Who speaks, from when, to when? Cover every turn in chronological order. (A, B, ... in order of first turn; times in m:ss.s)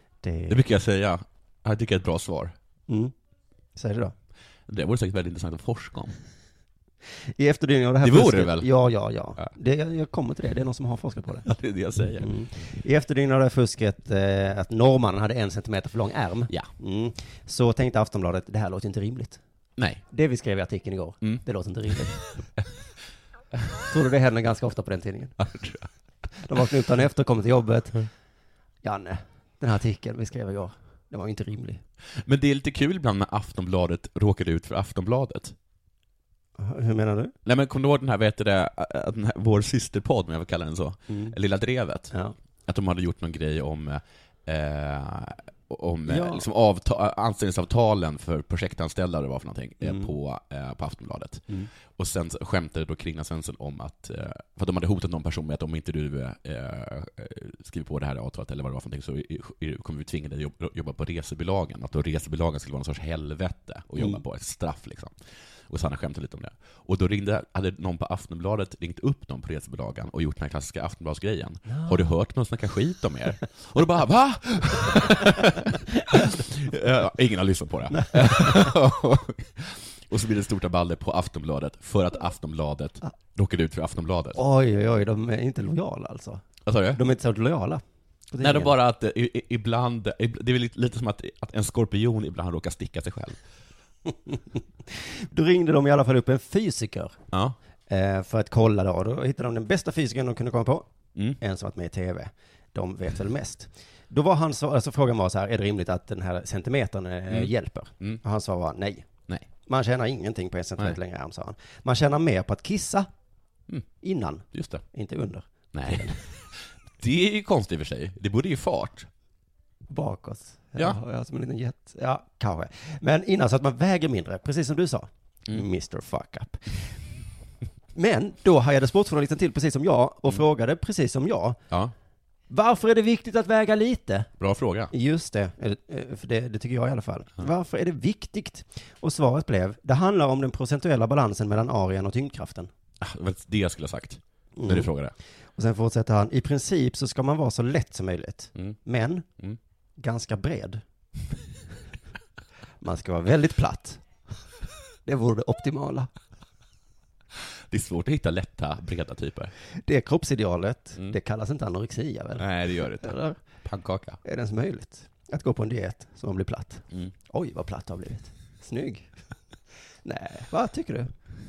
0:00.2-0:00.6 A
0:00.5-0:02.5 B
0:02.9-0:03.1 A
0:03.8-0:04.1 A
0:04.7-0:06.2 B
0:07.4-0:11.5 A
0:08.0-0:08.7 B
0:11.4-0:12.3 B
0:12.2-0:19.4 A
0:19.8-0:20.0 B
0:20.1-0:22.2 A
0:23.9-0:25.4 A
0:25.4-0:25.9 B
0:26.4-0:28.1 A
0:28.8-0:31.8 A
0:32.2-0:35.5 B
0:36.6-0:37.4 A
0:37.4-0:42.1 B
0:41.1-0:41.4 A
0:42.7-1:05.2 B
0:46.1-0:46.4 A
0:49.8-0:50.1 A
1:05.7-1:24.4 B
1:11.7-1:12.0 A
1:17.9-1:18.7 A
1:24.4-1:28.7 A
1:26.6-1:27.0 B
1:28.4-1:33.4 B
1:34.1-1:37.2 A
1:37.9-1:40.9 A
1:41.4-1:49.1 A
1:47.3-1:48.2 B
1:49.6-1:53.1 A
1:54.0-1:56.2 A
1:54.5-1:54.8 B
1:55.7-1:59.1 B
1:59.9-2:06.9 A
2:07.9-2:11.6 A
2:12.5-2:14.3 A
2:14.4-2:14.9 B
2:14.9-2:22.7 A
2:23.0-2:25.1 B
2:24.6-2:24.9 A
2:25.6-2:29.2 A
2:30.0-2:30.8 A
2:32.8-2:34.0 A
2:35.0-2:36.1 A
2:37.7-2:39.5 B
2:39.8-2:42.4 A
2:42.4-2:44.2 B
2:43.0-2:43.4 A
2:44.2-2:49.1 A
2:50.0-2:51.1 A